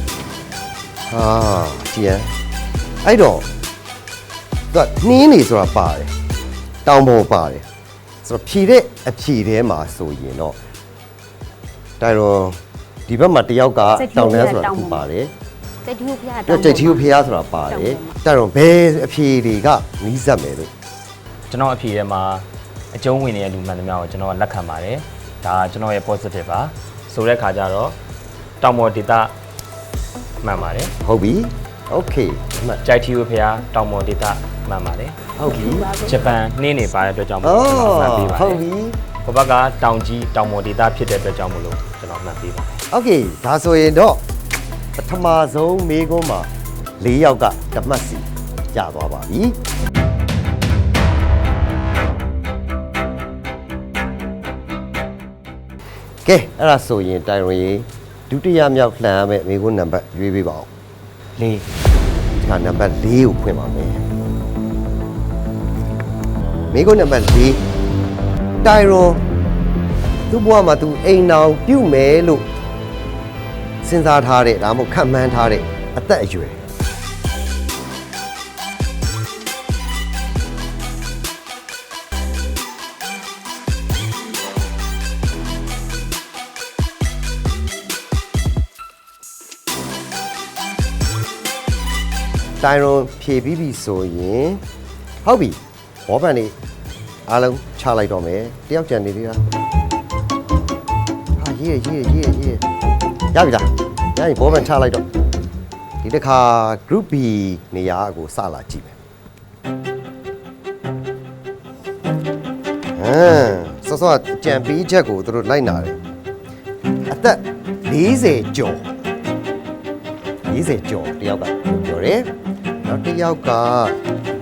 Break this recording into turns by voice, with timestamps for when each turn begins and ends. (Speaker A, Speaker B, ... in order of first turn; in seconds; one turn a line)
Speaker A: 1.1-2.3
Speaker A: 3.0-3.5
Speaker A: 4.7-6.1
Speaker A: 6.8-7.7
Speaker A: 8.2-10.6
Speaker A: 12.0-15.3
Speaker B: 13.9-15.0
Speaker B: 15.8-18.1
Speaker A: 16.4-20.7
Speaker C: 21.5-28.0
Speaker C: 28.6-29.3
Speaker C: 30.4-30.9
Speaker A: 31.0-32.8
Speaker C: 32.8-35.3
Speaker A: 35.4-35.9
Speaker B: 35.4-36.2
Speaker C: 36.0-38.6
Speaker A: 37.4-39.0
Speaker C: 39.2-42.8
Speaker A: 42.9-44.2
Speaker A: 45.0-49.6
Speaker A: 56.2-60.7
Speaker A: 61.4-61.7
Speaker A: 62.4-64.0
Speaker A: 66.7-67.6
Speaker A: 68.6-69.2
Speaker A: 70.3-72.5
Speaker A: 73.8-76.6
Speaker A: 92.6-94.6
Speaker A: 95.2-96.5
Speaker A: 97.3-99.4
Speaker A: 101.4-102.6
Speaker A: 103.3-105.1
Speaker A: 106.0-109.0
Speaker A: 113.0-116.0
Speaker A: 117.1-118.9
Speaker A: 120.5-122.3
Speaker A: 122.8-124.0